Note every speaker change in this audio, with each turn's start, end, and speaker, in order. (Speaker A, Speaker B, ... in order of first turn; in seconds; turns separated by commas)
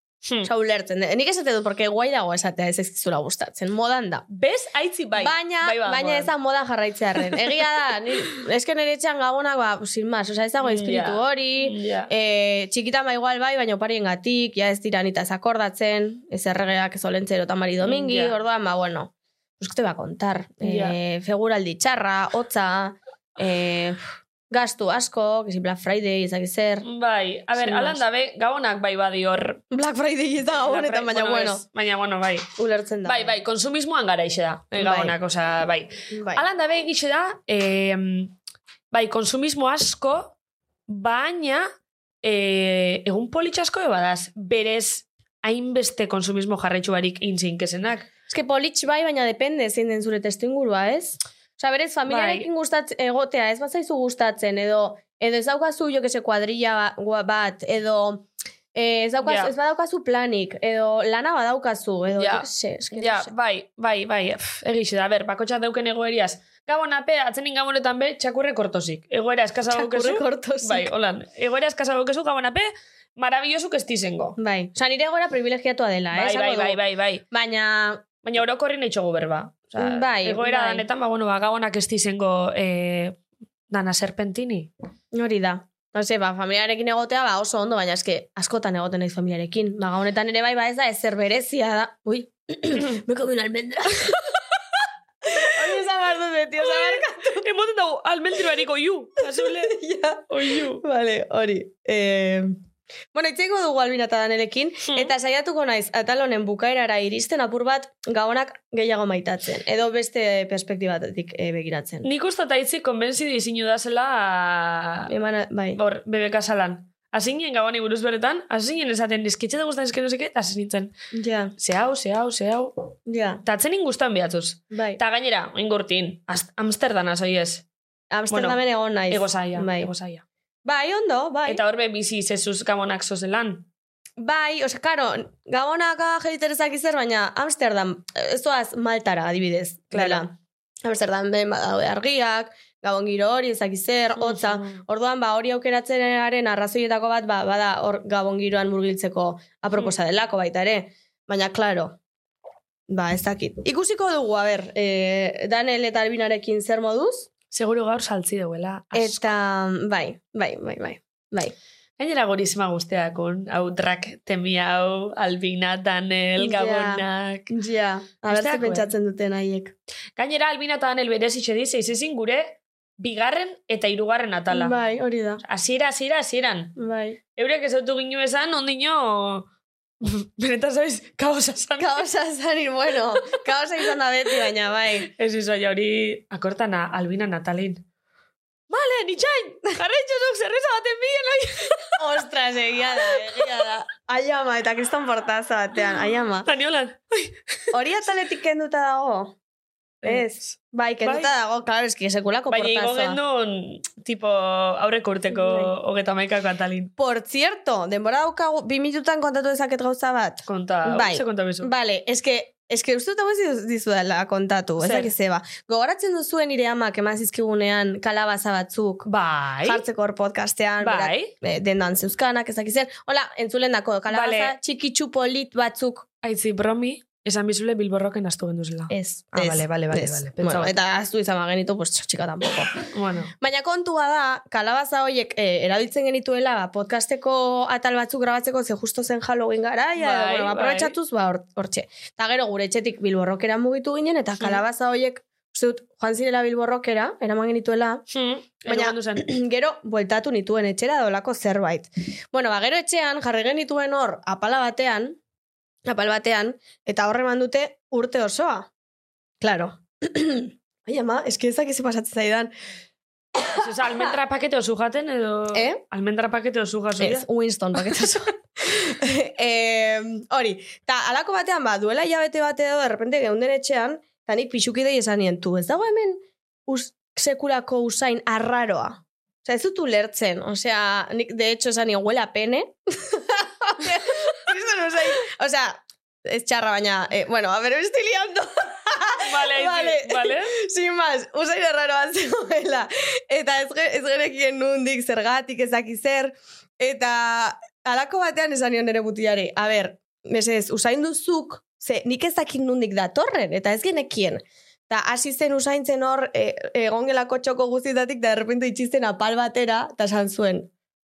Speaker A: 0.4-4.2, Speaker B: 4.3-6.3, Speaker A: 5.2-24.0, Speaker B: 10.6-12.1, Speaker B: 17.8-18.3, Speaker B: 20.6-21.0, Speaker A: 24.5-26.8, Speaker B: 26.8-29.6, Speaker A: 27.6-28.0, Speaker A: 29.7-31.6, Speaker B: 30.6-32.5, Speaker A: 32.6-33.3, Speaker B: 33.0-38.3, Speaker A: 34.8-35.1, Speaker A: 36.1-36.4, Speaker B: 38.9-40.4, Speaker B: 40.9-41.7, Speaker B: 42.2-48.1, Speaker A: 48.3-63.3, Speaker B: 52.1-52.5, Speaker B: 59.2-59.5, Speaker B: 62.2-74.4, Speaker A: 69.7-70.9, Speaker A: 74.4-78.0, Speaker B: 76.1-77.2, Speaker B: 78.2-83.2, Speaker A: 79.8-80.8, Speaker B: 83.7-84.7, Speaker A: 85.1-94.3, Speaker A: 95.2-97.4, Speaker B: 95.5-95.8, Speaker B: 96.6-99.8, Speaker A: 99.3-102.5, Speaker B: 100.3-100.8, Speaker A: 103.1-112.0, Speaker B: 112.0-115.1, Speaker A: 115.1-115.8, Speaker B: 115.8-120.9, Speaker A: 121.1-121.5, Speaker B: 121.6-122.7, Speaker A: 123.1-123.4, Speaker B: 123.4-127.6, Speaker A: 124.7-125.0, Speaker A: 128.1-129.9, Speaker B: 128.3-130.2, Speaker A: 130.6-131.6, Speaker B: 131.5-133.7, Speaker A: 134.2-152.0, Speaker B: 139.9-140.2, Speaker B: 144.2-144.8, Speaker A: 152.9-157.3, Speaker B: 157.5-159.3, Speaker A: 158.9-161.5, Speaker B: 162.0-167.5, Speaker A: 166.4-169.7, Speaker B: 168.3-168.9, Speaker B: 170.2-174.7, Speaker A: 174.5-175.4, Speaker B: 175.4-176.7, Speaker A: 176.8-177.2, Speaker B: 177.3-179.5, Speaker B: 180.0-182.0, Speaker A: 181.8-185.1, Speaker B: 185.1-187.8, Speaker B: 188.7-192.0, Speaker A: 192.0-196.5, Speaker B: 193.0-193.6, Speaker B: 196.4-197.3, Speaker A: 197.7-199.3, Speaker B: 200.0-200.5, Speaker A: 200.0-203.2, Speaker B: 201.0-201.3, Speaker B: 202.5-206.9, Speaker A: 205.3-205.7, Speaker A: 207.0-219.1, Speaker B: 210.5-211.7, Speaker B: 214.8-215.1, Speaker B: 219.0-219.8, Speaker A: 219.6-226.1, Speaker B: 220.8-221.3, Speaker B: 224.1-224.5, Speaker B: 226.2-230.7, Speaker A: 228.9-232.8, Speaker B: 232.9-233.3, Speaker A: 233.4-248.0, Speaker B: 239.9-240.9, Speaker B: 248.1-249.2, Speaker A: 248.7-255.2, Speaker A: 255.8-258.7, Speaker A: 259.4-262.5, Speaker A: 263.4-264.1, Speaker B: 263.5-267.2, Speaker A: 265.5-265.8, Speaker A: 267.0-310.7, Speaker B: 289.2-290.5